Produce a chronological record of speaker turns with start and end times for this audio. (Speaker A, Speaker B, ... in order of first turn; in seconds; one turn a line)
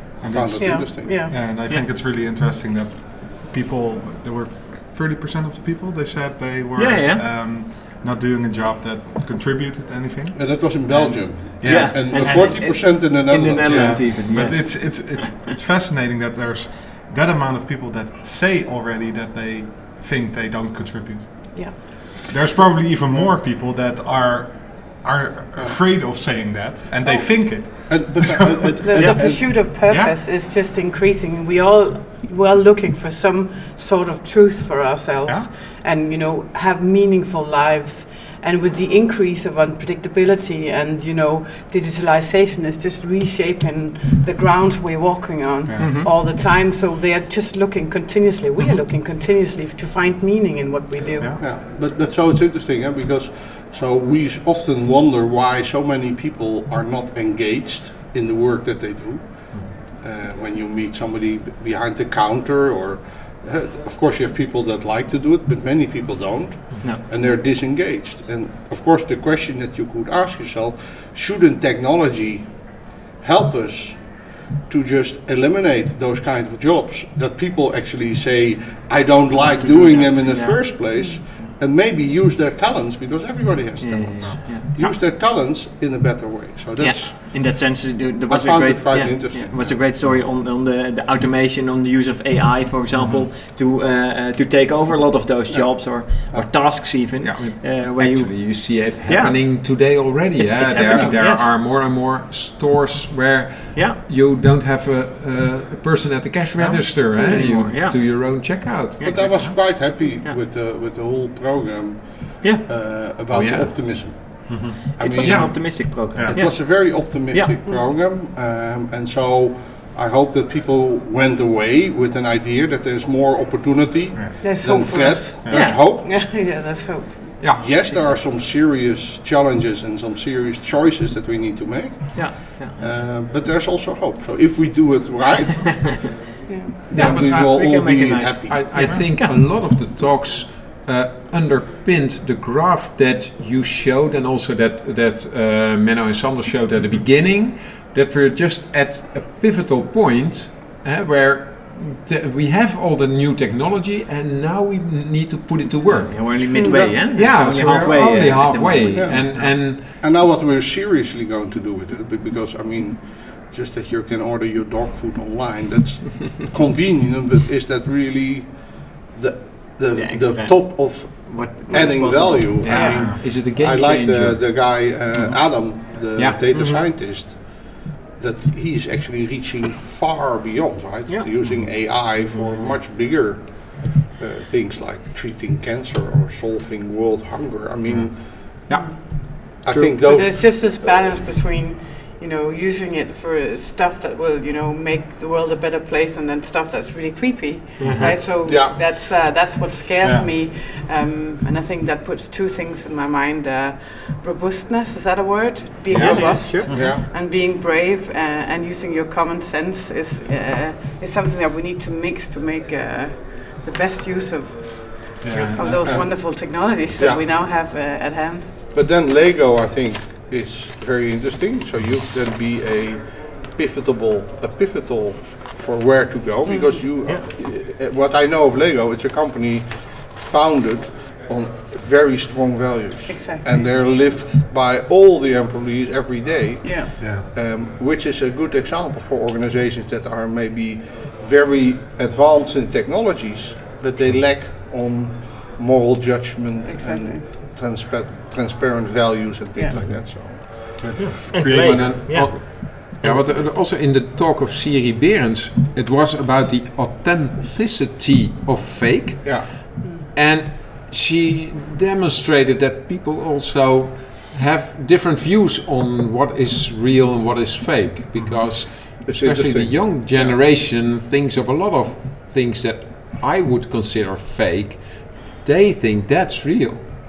Speaker A: 0.2-1.2
Speaker B: 0.2-12.6
Speaker C: 0.6-1.4
Speaker D: 6.8-7.3
Speaker A: 10.3-14.2
Speaker D: 11.6-15.3
Speaker B: 13.6-30.1
Speaker C: 27.1-27.7
Speaker A: 27.5-29.6
Speaker C: 28.8-51.4
Speaker D: 28.9-29.2
Speaker B: 45.7-46.0
Speaker D: 45.8-46.1
Speaker A: 51.4-87.6
Speaker D: 66.7-67.1
Speaker D: 79.4-81.5
Speaker C: 80.9-81.2
Speaker D: 83.8-85.0
Speaker D: 86.8-101.5
Speaker A: 88.3-89.8
Speaker A: 95.5-96.5
Speaker E: 97.2-109.3
Speaker A: 100.7-101.2
Speaker D: 103.8-104.0
Speaker D: 106.6-110.4
Speaker A: 109.0-126.1
Speaker D: 112.4-112.7
Speaker E: 113.3-114.2
Speaker B: 114.5-114.8
Speaker D: 115.0-117.6
Speaker E: 115.2-115.6
Speaker B: 116.1-116.5
Speaker B: 124.2-124.4
Speaker C: 124.4-127.5
Speaker B: 125.5-125.7
Speaker D: 125.5-125.9
Speaker A: 127.5-135.9
Speaker D: 132.1-132.8
Speaker D: 135.7-136.0
Speaker C: 136.5-137.0
Speaker A: 136.9-139.0
Speaker E: 136.9-137.6
Speaker D: 136.9-139.4
Speaker E: 138.5-160.0
Speaker D: 156.1-159.7
Speaker C: 156.5-157.0
Speaker A: 156.7-188.7
Speaker D: 169.9-173.9
Speaker C: 171.7-172.0
Speaker E: 172.6-174.4
Speaker C: 172.6-173.1
Speaker B: 172.9-173.2
Speaker E: 176.2-176.4
Speaker D: 176.5-176.9
Speaker E: 187.9-189.0
Speaker C: 188.7-189.0
Speaker E: 189.5-189.9
Speaker A: 189.6-191.1
Speaker C: 189.9-218.6
Speaker E: 197.8-198.2
Speaker D: 197.8-198.3
Speaker A: 198.0-198.8
Speaker B: 200.0-200.3
Speaker E: 205.9-206.6
Speaker D: 205.9-206.9
Speaker A: 206.0-207.1
Speaker B: 215.2-216.1
Speaker A: 215.8-216.4
Speaker A: 217.0-217.2
Speaker A: 218.7-251.0
Speaker C: 226.4-226.9
Speaker D: 227.0-227.3
Speaker C: 233.1-233.5
Speaker C: 236.6-237.0
Speaker B: 237.0-237.2
Speaker C: 246.7-247.3
Speaker C: 249.6-249.8
Speaker B: 249.8-252.0
Speaker D: 251.0-253.4
Speaker E: 251.3-276.9
Speaker A: 259.2-259.6
Speaker C: 259.8-260.1
Speaker A: 268.5-270.4